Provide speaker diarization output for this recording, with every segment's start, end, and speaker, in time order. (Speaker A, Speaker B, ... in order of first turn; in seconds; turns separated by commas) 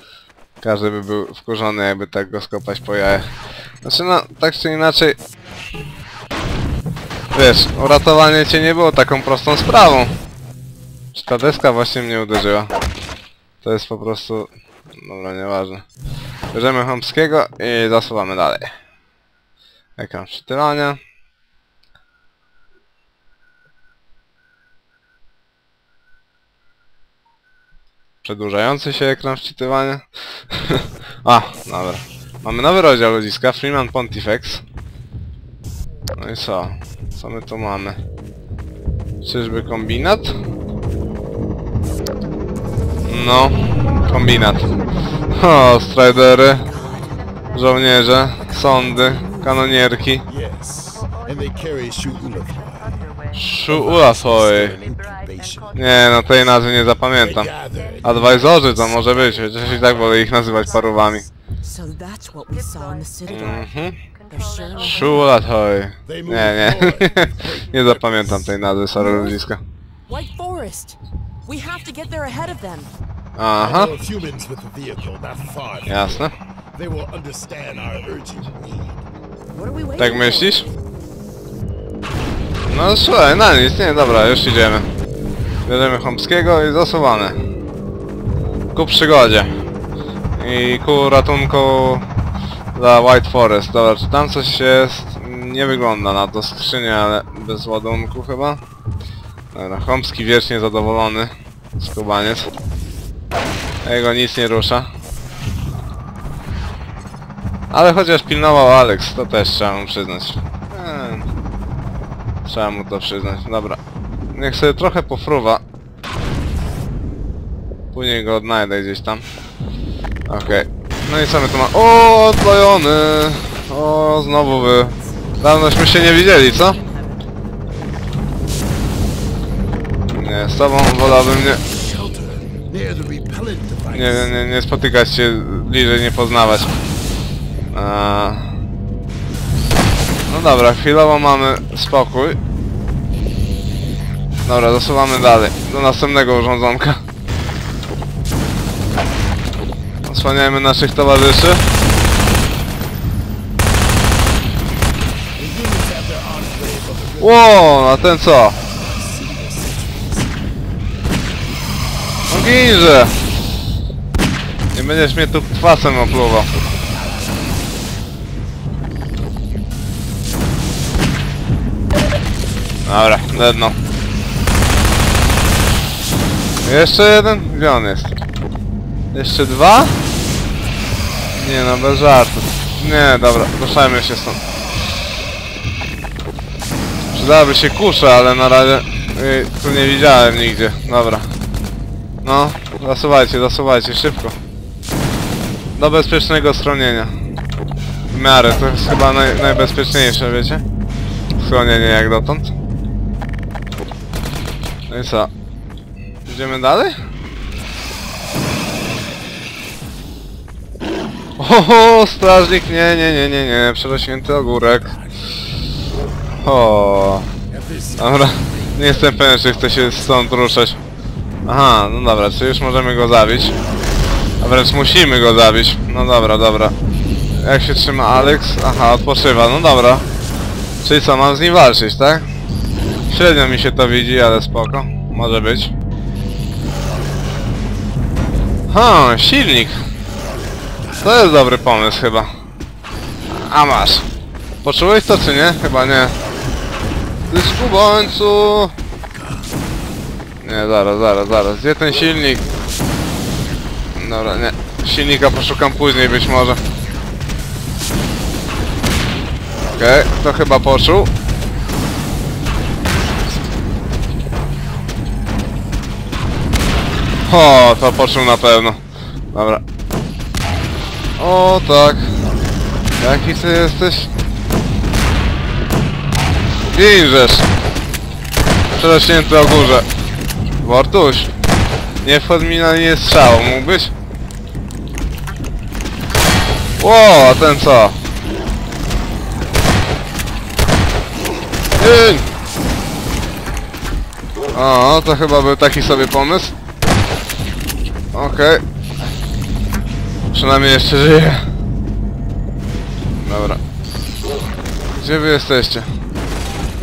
Speaker A: 0.6-3.3, Speaker A: 3.8-5.2, Speaker A: 7.3-10.1, Speaker A: 11.1-12.7, Speaker A: 13.6-15.8, Speaker A: 16.5-18.7, Speaker A: 20.0-21.0, Speaker A: 28.2-34.6, Speaker A: 36.1-38.0, Speaker A: 39.2-40.4, Speaker A: 43.1-44.7, Speaker A: 45.3-46.7, Speaker B: 46.7-47.1, Speaker A: 47.5-50.2, Speaker B: 48.4-49.7, Speaker C: 50.2-55.8, Speaker A: 53.3-54.8, Speaker A: 55.7-57.5, Speaker C: 57.1-60.4, Speaker A: 58.0-61.3, Speaker B: 61.6-63.7, Speaker A: 63.3-64.0, Speaker B: 64.3-65.4, Speaker A: 64.8-69.6, Speaker C: 66.0-68.6, Speaker B: 69.0-69.4, Speaker B: 70.1-72.9, Speaker A: 73.3-73.9, Speaker C: 73.6-79.0, Speaker A: 75.8-76.3, Speaker B: 79.5-80.7, Speaker A: 80.0-80.7, Speaker A: 82.7-84.9, Speaker A: 85.7-87.4, Speaker A: 88.7-89.5, Speaker A: 90.3-92.0, Speaker A: 92.7-98.6, Speaker A: 99.5-102.5, Speaker A: 103.8-104.9, Speaker A: 107.7-111.2, Speaker A: 112.4-113.8, Speaker A: 114.3-115.6, Speaker A: 117.9-119.2, Speaker A: 120.3-126.8, Speaker B: 124.3-127.3, Speaker A: 130.1-131.6, Speaker C: 131.7-134.3, Speaker A: 133.9-136.7, Speaker A: 137.7-138.5, Speaker A: 140.3-142.4, Speaker A: 144.4-147.0, Speaker A: 150.0-151.7, Speaker C: 155.4-160.5, Speaker A: 157.2-158.6, Speaker A: 162.3-163.2, Speaker A: 164.7-166.5, Speaker C: 166.5-167.9, Speaker A: 172.8-173.8, Speaker A: 176.6-178.1, Speaker A: 179.1-180.0, Speaker A: 181.3-184.4, Speaker A: 187.1-191.3, Speaker A: 192.2-194.3, Speaker A: 195.8-197.1, Speaker A: 198.1-200.6, Speaker A: 201.4-202.5, Speaker A: 204.9-205.3, Speaker A: 206.2-206.9, Speaker A: 211.4-214.9, Speaker C: 214.8-215.1, Speaker A: 216.4-217.3, Speaker C: 217.5-220.4, Speaker A: 218.0-220.8, Speaker A: 221.4-223.5, Speaker A: 224.4-226.7, Speaker A: 227.4-230.0, Speaker A: 230.8-232.3, Speaker A: 233.1-235.7, Speaker A: 238.7-239.8, Speaker C: 240.8-241.4, Speaker A: 241.0-242.3, Speaker A: 243.3-244.1, Speaker A: 244.6-246.1, Speaker A: 247.3-248.7, Speaker C: 249.1-249.5, Speaker A: 250.4-252.4, Speaker A: 253.9-256.6, Speaker A: 259.7-261.1, Speaker A: 267.3-268.8, Speaker A: 269.3-269.6, Speaker A: 271.2-272.1, Speaker A: 273.0-274.1, Speaker A: 276.7-277.5, Speaker A: 278.7-279.9, Speaker A: 280.6-281.3, Speaker A: 282.0-283.9, Speaker A: 286.8-288.0, Speaker A: 291.8-292.2, Speaker A: 294.5-296.5, Speaker A: 298.1-298.6, Speaker A: 300.3-301.4, Speaker A: 303.2-303.6, Speaker A: 304.9-305.9